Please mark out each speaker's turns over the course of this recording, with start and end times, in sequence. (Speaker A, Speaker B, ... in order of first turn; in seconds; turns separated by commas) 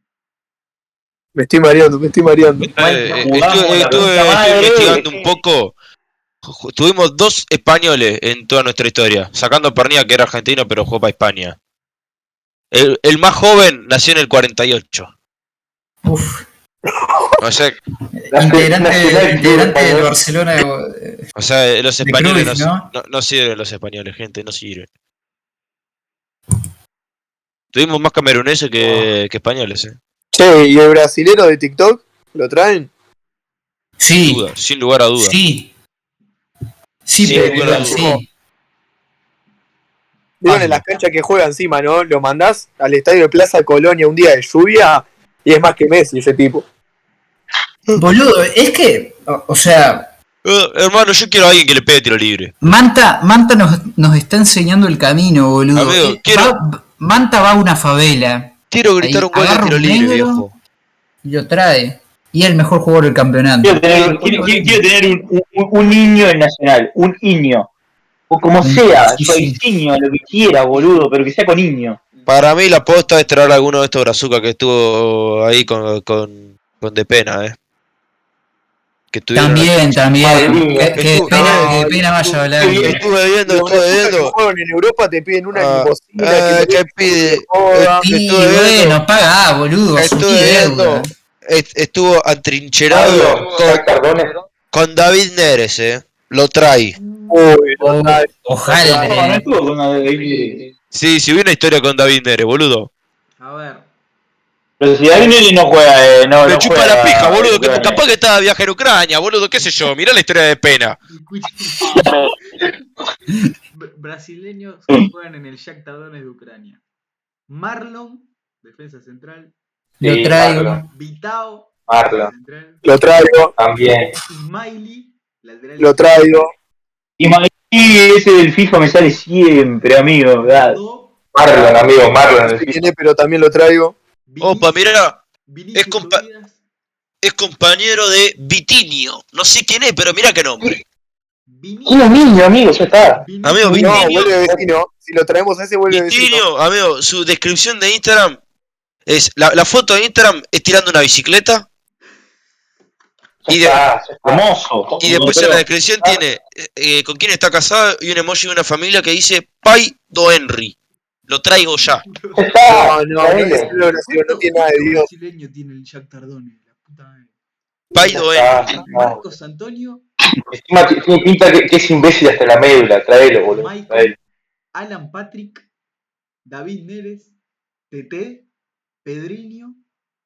Speaker A: 1.4-2.7, Speaker B: 2.6-5.7, Speaker C: 2.8-5.2, Speaker B: 6.4-11.6, Speaker B: 12.7-15.1, Speaker D: 16.0-16.5, Speaker B: 17.4-17.8, Speaker D: 18.2-21.3, Speaker E: 18.3-20.1, Speaker B: 21.4-24.9, Speaker D: 22.0-22.9, Speaker B: 27.7-30.0, Speaker A: 30.3-32.9, Speaker D: 34.0-34.5, Speaker B: 34.2-35.4, Speaker D: 35.2-35.7, Speaker D: 37.1-38.3, Speaker B: 37.2-38.1, Speaker E: 37.3-38.0, Speaker A: 40.4-46.6, Speaker D: 40.5-40.8, Speaker D: 48.0-50.1, Speaker B: 50.5-52.5, Speaker D: 52.6-60.5, Speaker B: 55.8-56.5, Speaker B: 58.7-60.5, Speaker D: 61.2-64.8, Speaker C: 63.6-67.7, Speaker C: 68.3-72.0, Speaker D: 68.6-69.6, Speaker B: 72.3-77.6, Speaker B: 79.1-80.0, Speaker D: 79.3-83.0, Speaker E: 80.2-81.0, Speaker B: 80.9-81.7, Speaker A: 81.1-82.1, Speaker E: 82.6-83.0, Speaker B: 82.8-84.3, Speaker A: 83.5-88.0, Speaker B: 85.5-89.0, Speaker D: 88.0-91.1, Speaker B: 90.0-93.9, Speaker E: 92.9-94.3, Speaker B: 94.7-97.0, Speaker F: 96.9-97.4, Speaker A: 97.3-99.1, Speaker D: 97.8-99.5, Speaker C: 98.8-100.6, Speaker B: 100.9-102.9, Speaker F: 103.4-103.9, Speaker C: 104.8-108.0, Speaker B: 106.5-111.0, Speaker F: 111.1-112.7, Speaker C: 111.9-112.2, Speaker F: 113.7-116.8, Speaker F: 117.5-119.5, Speaker D: 120.0-120.9, Speaker E: 120.0-120.8, Speaker F: 120.8-122.8, Speaker E: 121.9-122.3, Speaker A: 122.8-123.5, Speaker E: 123.6-124.1, Speaker F: 124.3-126.3, Speaker A: 125.8-126.5, Speaker C: 127.2-130.8, Speaker F: 130.4-131.2, Speaker E: 131.3-132.8, Speaker A: 132.3-134.0, Speaker F: 134.3-136.6, Speaker B: 134.4-135.2, Speaker B: 135.7-136.2, Speaker B: 137.2-140.7, Speaker F: 141.5-142.2, Speaker E: 141.9-143.2, Speaker F: 143.2-144.4, Speaker B: 143.4-144.4, Speaker A: 143.7-146.4, Speaker B: 145.9-148.4, Speaker B: 149.1-151.7, Speaker E: 153.5-154.4, Speaker B: 153.5-153.8, Speaker C: 154.2-155.6, Speaker E: 155.0-155.4, Speaker B: 155.0-160.7, Speaker B: 161.3-162.0, Speaker F: 161.9-162.7, Speaker E: 162.4-163.7, Speaker A: 162.7-165.1, Speaker F: 163.8-167.3, Speaker B: 167.9-168.8, Speaker F: 168.0-170.0, Speaker E: 168.1-169.2, Speaker E: 170.5-174.1, Speaker F: 173.5-174.2, Speaker F: 174.8-175.7, Speaker F: 176.5-177.3, Speaker F: 177.9-178.5, Speaker F: 179.1-179.8